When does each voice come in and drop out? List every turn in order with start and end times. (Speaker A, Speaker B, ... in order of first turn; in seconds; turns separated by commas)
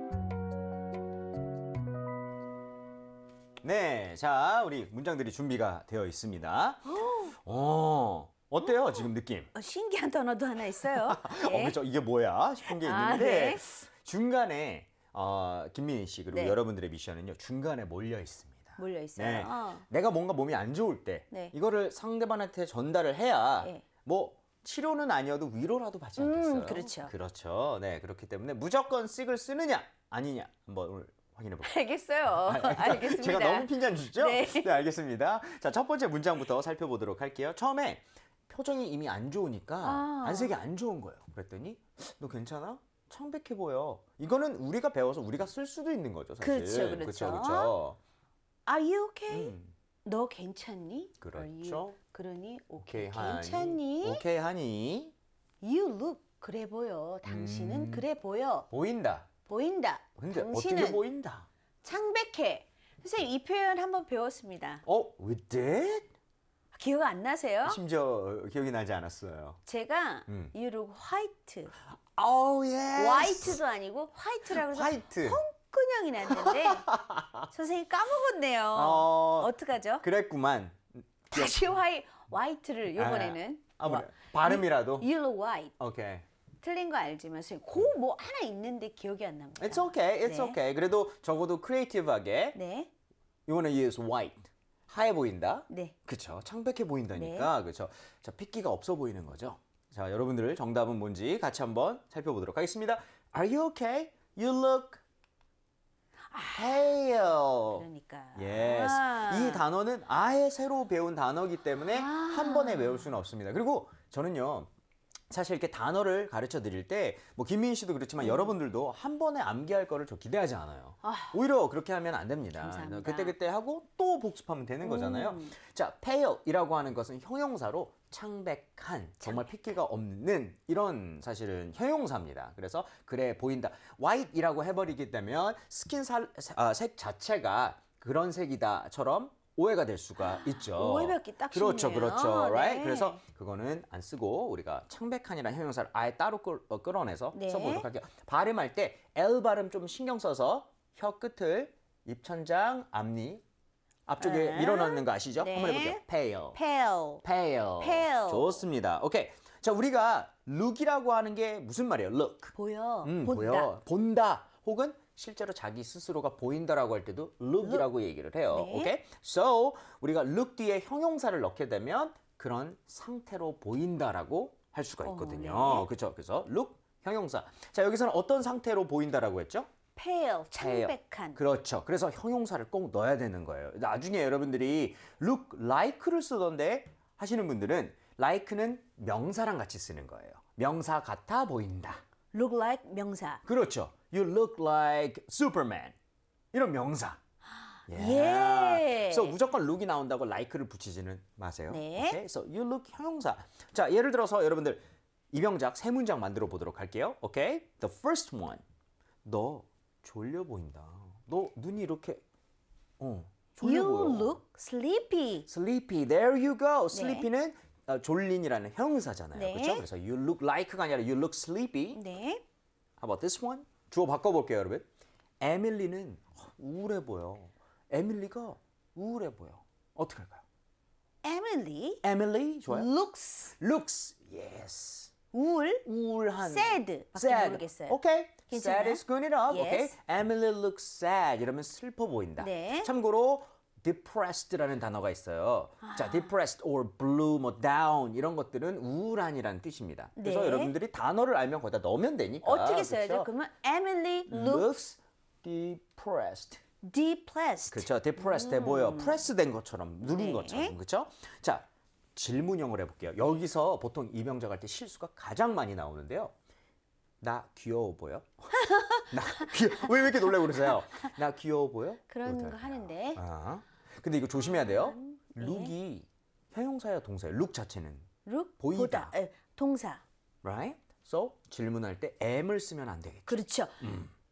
Speaker A: 3.6-6.9, Speaker B: 6.8-7.3, Speaker A: 7.4-9.5, Speaker B: 8.6-11.8, Speaker A: 10.8-31.8, Speaker B: 12.7-13.7, Speaker B: 16.3-16.6, Speaker B: 18.8-19.8, Speaker B: 26.2-27.1, Speaker B: 31.6-34.7, Speaker A: 32.4-48.0, Speaker B: 39.8-40.6, Speaker B: 46.4-47.8, Speaker B: 48.7-54.2, Speaker A: 49.3-49.7, Speaker A: 51.2-52.0, Speaker A: 52.8-55.1, Speaker B: 55.6-58.7, Speaker A: 57.3-58.1, Speaker A: 58.7-59.3, Speaker B: 59.5-61.0, Speaker A: 60.2-61.5, Speaker B: 61.8-64.8, Speaker A: 64.8-66.1, Speaker B: 66.7-67.8, Speaker A: 67.6-69.6, Speaker B: 69.7-71.7, Speaker A: 70.3-70.5, Speaker A: 71.9-73.6, Speaker B: 73.0-76.9, Speaker A: 74.5-75.4, Speaker A: 76.3-77.4, Speaker B: 77.5-80.0, Speaker A: 78.7-81.6, Speaker B: 81.3-85.7, Speaker A: 82.9-85.1, Speaker A: 85.8-86.2, Speaker B: 86.6-90.6, Speaker A: 89.6-92.6, Speaker B: 92.5-92.9, Speaker A: 93.5-105.0, Speaker B: 95.7-96.0, Speaker B: 97.1-97.5, Speaker B: 106.3-106.9, Speaker A: 106.5-107.8, Speaker B: 107.7-109.6, Speaker A: 108.3-114.7, Speaker B: 111.9-113.1, Speaker A: 115.3-153.4, Speaker B: 118.2-118.5, Speaker B: 121.0-121.4, Speaker B: 122.6-123.3, Speaker B: 124.8-125.5, Speaker B: 129.2-129.6, Speaker B: 140.2-143.2, Speaker B: 147.3-147.9, Speaker A: 154.1-156.6, Speaker B: 154.2-156.0, Speaker B: 156.5-157.2, Speaker A: 157.2-179.7, Speaker B: 157.8-158.6, Speaker B: 162.5-163.7, Speaker B: 168.5-168.9, Speaker B: 175.0-175.9, Speaker B: 180.0-181.4, Speaker A: 180.6-192.0, Speaker B: 192.3-193.4, Speaker A: 193.4-195.9, Speaker A: 196.5-197.2, Speaker B: 197.9-199.4, Speaker A: 197.9-208.6, Speaker B: 201.7-202.2, Speaker A: 209.2-212.2, Speaker A: 213.0-214.4, Speaker B: 213.6-215.5, Speaker A: 215.5-222.0, Speaker B: 216.9-217.3, Speaker B: 219.3-219.9, Speaker B: 221.9-222.4, Speaker A: 223.0-224.8, Speaker A: 225.4-230.4, Speaker B: 231.2-232.0, Speaker A: 232.0-232.9, Speaker B: 232.7-233.5, Speaker A: 233.6-235.1, Speaker B: 235.3-235.8, Speaker A: 235.8-253.3, Speaker B: 236.4-239.9, Speaker B: 242.4-242.9, Speaker B: 245.8-246.3, Speaker B: 250.2-250.7, Speaker B: 252.4-254.7, Speaker A: 254.3-256.6, Speaker B: 256.8-259.2, Speaker A: 257.7-266.3, Speaker B: 260.0-260.8, Speaker A: 267.2-268.5, Speaker B: 268.7-269.5, Speaker A: 269.1-278.1, Speaker B: 272.1-273.2, Speaker B: 274.4-275.7, Speaker B: 278.2-280.0, Speaker A: 278.6-279.1, Speaker A: 280.4-284.1, Speaker B: 283.3-283.8